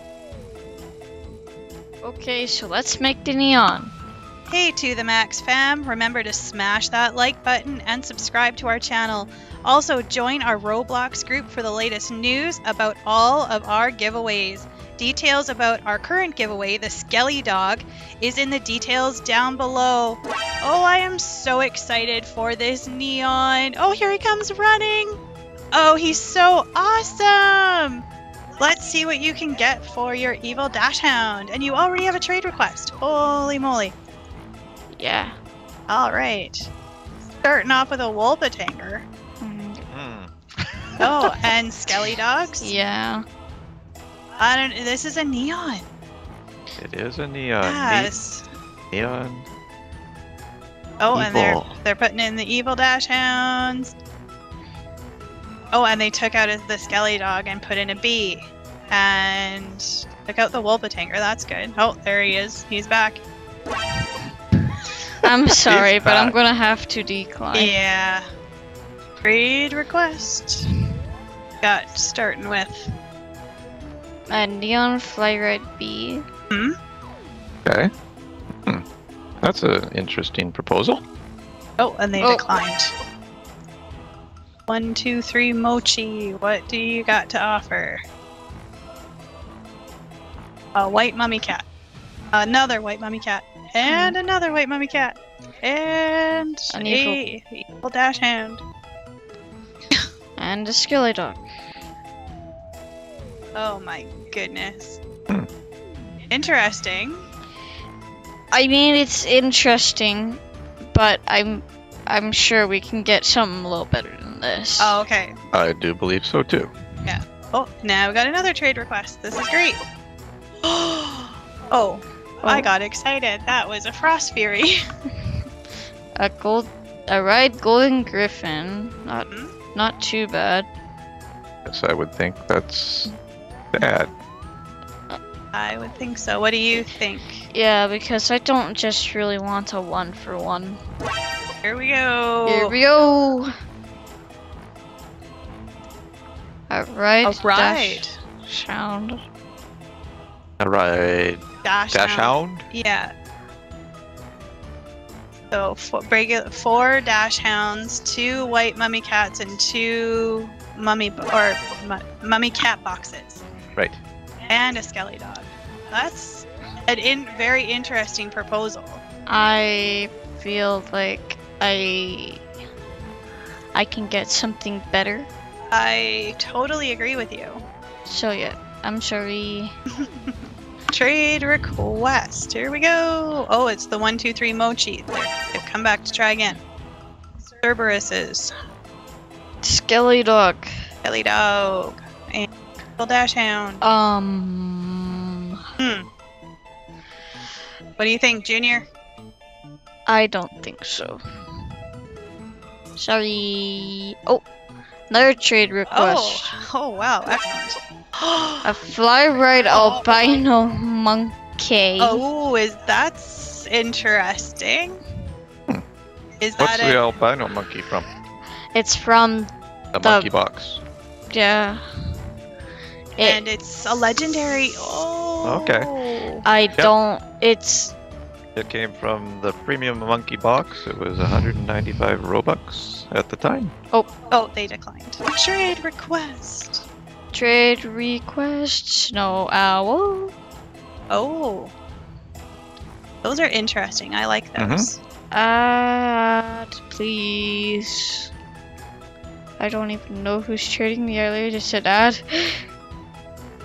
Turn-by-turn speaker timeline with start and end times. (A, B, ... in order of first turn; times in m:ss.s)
0:02.0-0:03.9 A
0:04.5-0:25.2 B
0:25.7-0:28.0 B
0:28.6-0:34.0 B
0:35.0-0:35.4 A
0:35.9-0:36.6 B
0:37.4-0:39.0 B
0:39.4-0:39.8 A
0:39.9-0:40.3 C
0:41.0-0:42.7 B
0:42.6-0:43.2 A
0:44.4-0:45.9 B
0:46.8-0:48.1 C
0:47.6-0:48.4 B
0:48.9-0:49.5 C
0:51.0-0:53.9 B
0:51.1-0:51.8 C
0:55.7-1:03.2 B
1:05.2-1:07.8 A
1:05.7-1:06.4 C
1:07.5-1:08.2 B
1:09.2-1:10.7 B
1:11.6-1:12.9 B
1:14.3-1:16.2 A
1:19.4-1:21.0 C
1:21.8-1:22.9 B
1:22.2-1:22.6 A
1:24.7-1:28.0 B
1:30.8-1:31.6 B
1:32.3-1:38.6 B
1:33.8-1:34.2 A
1:36.7-1:37.2 A
1:40.4-1:41.4 A
1:43.6-1:45.0 B
1:46.3-1:47.2 B
1:48.5-1:50.4 A
1:50.9-1:55.0 A
1:54.8-1:55.4 B
1:55.5-1:56.7 C
1:57.1-1:59.8 B
2:00.6-2:04.8 B
2:02.4-2:02.7 A
2:06.2-2:10.7 A
2:11.7-2:13.1 C
2:13.7-2:14.1 C
2:15.5-2:17.4 B
2:17.5-2:20.8 A
2:21.6-2:22.7 B
2:22.4-2:23.5 A
2:26.7-2:29.2 A
2:27.2-2:28.2 B
2:30.6-2:32.7 C
2:31.6-2:33.1 B
2:35.5-2:43.4 B
2:43.8-2:44.0 C
2:44.5-2:49.0 B
2:49.3-2:52.4 A
2:53.8-2:55.3 A
2:55.7-2:57.6 B
2:58.1-2:59.7 A
3:00.0-3:06.6 B
3:07.6-3:08.5 B
3:09.6-3:10.7 A
3:11.0-3:12.5 B
3:13.0-3:13.8 B
3:13.8-3:15.6 A
3:15.8-3:16.1 B
3:18.0-3:18.9 B
3:20.1-3:21.2 A
3:23.0-3:24.4 A
3:25.1-3:26.6 A
3:25.9-3:28.7 B
3:28.6-3:32.2 A
3:29.7-3:30.0 B
3:32.0-3:35.0 B
3:36.4-3:37.0 B
3:36.6-3:38.1 C
3:38.7-3:40.3 A
3:39.9-3:40.8 C
3:41.3-3:41.8 A
3:43.2-3:43.4 A
3:43.2-3:46.4 B
3:45.4-3:45.9 C
3:46.4-3:48.0 A
3:48.6-3:53.7 C
3:54.3-3:56.8 B
3:57.3-4:00.3 A
4:01.1-4:01.7 B
4:03.2-4:05.0 B
4:04.6-4:04.9 C
4:05.3-4:08.3 A
4:09.6-4:12.6 A